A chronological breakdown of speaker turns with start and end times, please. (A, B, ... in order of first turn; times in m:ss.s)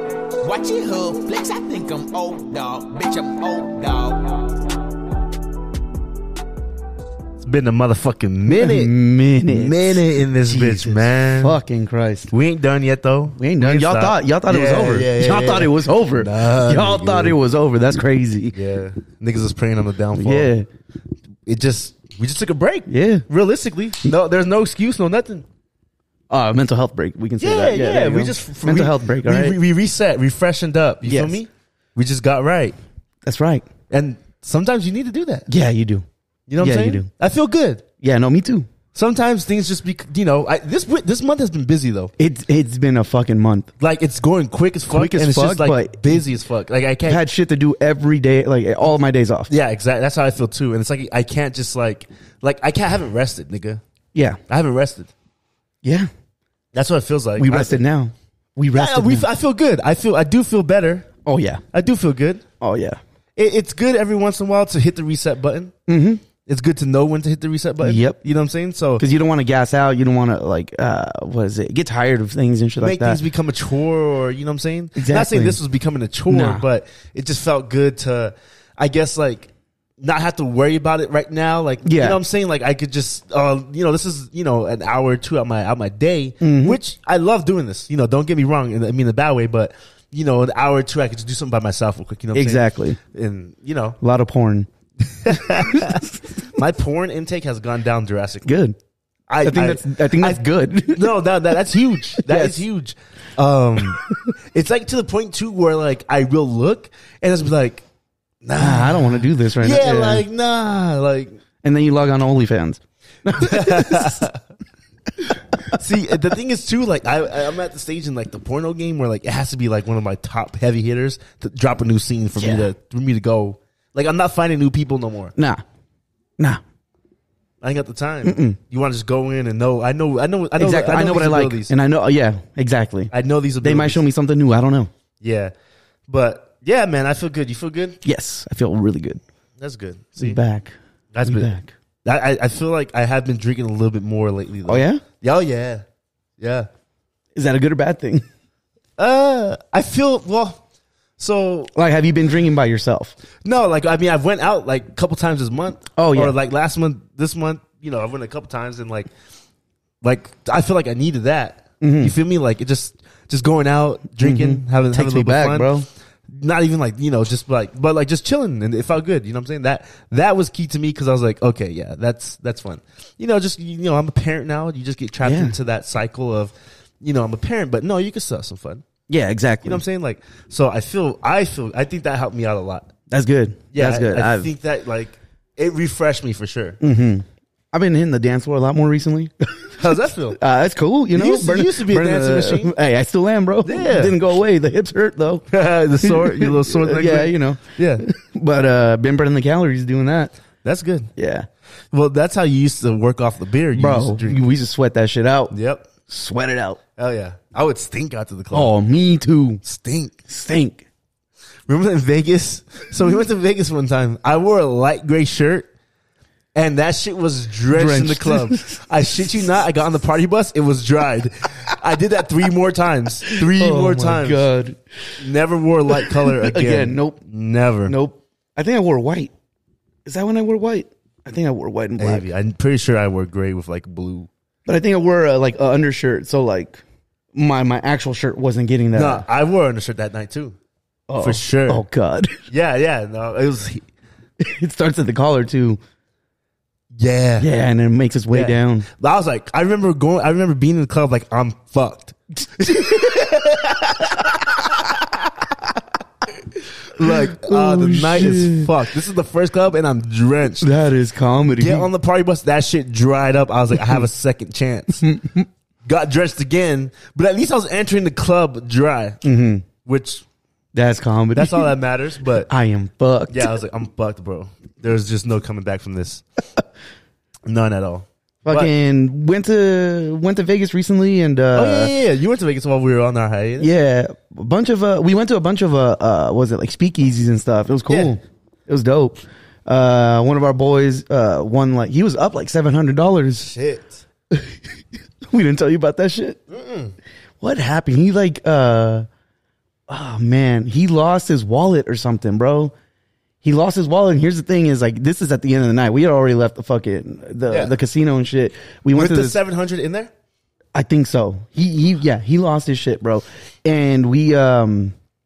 0:00.4-0:04.6 A
0:07.4-0:08.9 B
0:08.5-0:12.3 C
0:09.5-0:11.6 B
0:12.3-0:17.4 B
0:13.4-0:18.6 C
0:18.5-0:20.5 B
0:20.2-0:20.7 C
0:21.5-0:25.4 B
0:22.9-0:23.3 C
0:26.3-0:29.6 C
0:27.4-0:32.8 B
0:31.0-0:31.4 C
0:33.2-0:33.7 C
0:33.9-0:35.5 B
0:35.5-0:36.0 C
0:36.5-0:37.8 B
0:36.6-0:37.1 C
0:38.0-0:38.7 C
0:39.0-0:42.1 B
0:42.2-0:43.7 C
0:43.8-0:47.2 B
0:44.9-0:46.2 C
0:47.1-0:49.5 C
0:49.5-0:53.8 B
0:54.5-0:55.1 B
0:55.8-0:56.1 C
0:56.7-0:57.8 B
0:57.4-0:59.3 C
0:58.7-1:01.1 B
1:01.3-1:01.6 C
1:01.7-1:02.4 B
1:02.6-1:03.0 C
1:03.4-1:05.7 B
1:05.9-1:06.2 C
1:06.5-1:09.0 B
1:07.8-1:08.2 C
1:09.0-1:13.2 C
1:12.8-1:34.0 B
1:15.0-1:15.6 C
1:16.3-1:16.6 C
1:21.8-1:22.2 C
1:26.4-1:26.8 C
1:32.3-1:33.0 C
1:34.0-1:34.7 C
1:35.2-1:38.5 B
1:35.3-1:36.1 C
1:38.4-1:38.8 C
1:39.3-1:44.0 B
1:39.4-1:41.2 C
1:42.2-1:42.6 C
1:44.5-1:47.8 B
1:48.4-1:51.4 B
1:48.6-1:50.2 C
1:51.6-1:54.2 C
1:53.4-1:54.4 B
1:55.3-1:55.8 C
1:55.7-2:05.4 B
2:02.4-2:02.7 C
2:05.4-2:05.6 C
2:07.6-2:11.7 B
2:08.2-2:08.6 C
2:10.6-2:14.9 C
2:13.1-2:14.0 B
2:15.2-2:15.5 B
2:16.1-2:18.0 B
2:18.0-2:19.2 C
2:19.6-2:20.4 B
2:20.2-2:21.7 C
2:21.1-2:21.5 B
2:22.0-2:25.8 B
2:24.7-2:25.0 C
2:26.4-2:26.7 B
2:27.4-2:28.2 C
2:29.0-2:30.6 B
2:31.2-2:31.7 B
2:31.7-2:33.2 C
2:33.4-2:39.1 B
2:36.0-2:36.4 C
2:40.0-2:45.7 B
2:41.8-2:42.2 C
2:44.2-2:45.9 C
2:46.3-2:58.8 B
2:55.2-2:55.6 C
2:59.1-2:59.8 C
2:59.6-3:02.9 B
3:03.1-3:04.5 C
3:03.7-3:06.8 B
3:06.8-3:09.7 C
3:09.8-3:10.4 B
3:10.4-3:15.4 C
3:11.1-3:12.8 B
3:13.6-3:14.2 B
3:15.5-3:18.0 B
3:16.0-3:20.3 C
3:20.6-3:21.1 B
3:21.2-3:21.5 C
3:21.9-3:24.4 B
3:23.7-3:25.5 C
3:25.5-3:25.9 B
3:26.1-3:26.8 C
3:27.0-3:28.7 B
3:28.5-3:29.6 C
3:29.6-3:30.2 B
3:30.3-3:30.8 C
3:31.7-3:35.7 B
3:36.6-3:44.4 B
3:37.7-3:38.8 C
3:43.3-3:44.8 C
3:45.2-3:48.0 B
3:45.9-3:47.2 C
3:47.9-3:49.3 C
3:50.1-3:52.3 C
3:52.0-3:54.3 B
3:54.7-3:56.8 C
3:57.3-3:59.2 C
3:58.9-4:00.6 B
4:01.1-4:02.4 C
4:01.2-4:01.8 B
4:02.5-4:03.8 B
4:04.4-4:05.8 C
4:07.0-4:07.5 B
4:07.4-4:08.9 C
4:08.3-4:15.0 B
4:12.6-4:13.3 C
4:16.9-4:20.7 B
4:17.0-4:18.7 C
4:20.6-4:21.9 C
4:21.6-4:25.1 B
4:25.0-4:25.5 C
4:25.8-4:29.2 B
4:29.2-4:29.7 C
4:29.8-4:30.2 B
4:30.7-4:31.7 C
4:31.3-4:32.5 B
4:32.5-4:33.6 C
4:33.3-4:36.2 B
4:37.5-4:38.7 B
4:38.4-4:41.9 C
4:41.5-4:43.7 B
4:43.6-4:53.5 C
4:47.9-4:48.1 B
4:53.4-4:54.0 B
4:55.3-4:56.4 C
4:56.5-4:57.0 B
4:57.4-4:59.1 C
4:59.9-5:02.7 C
5:03.4-5:09.4 C
5:07.5-5:07.8 B
5:08.9-5:10.1 B
5:10.7-5:14.9 C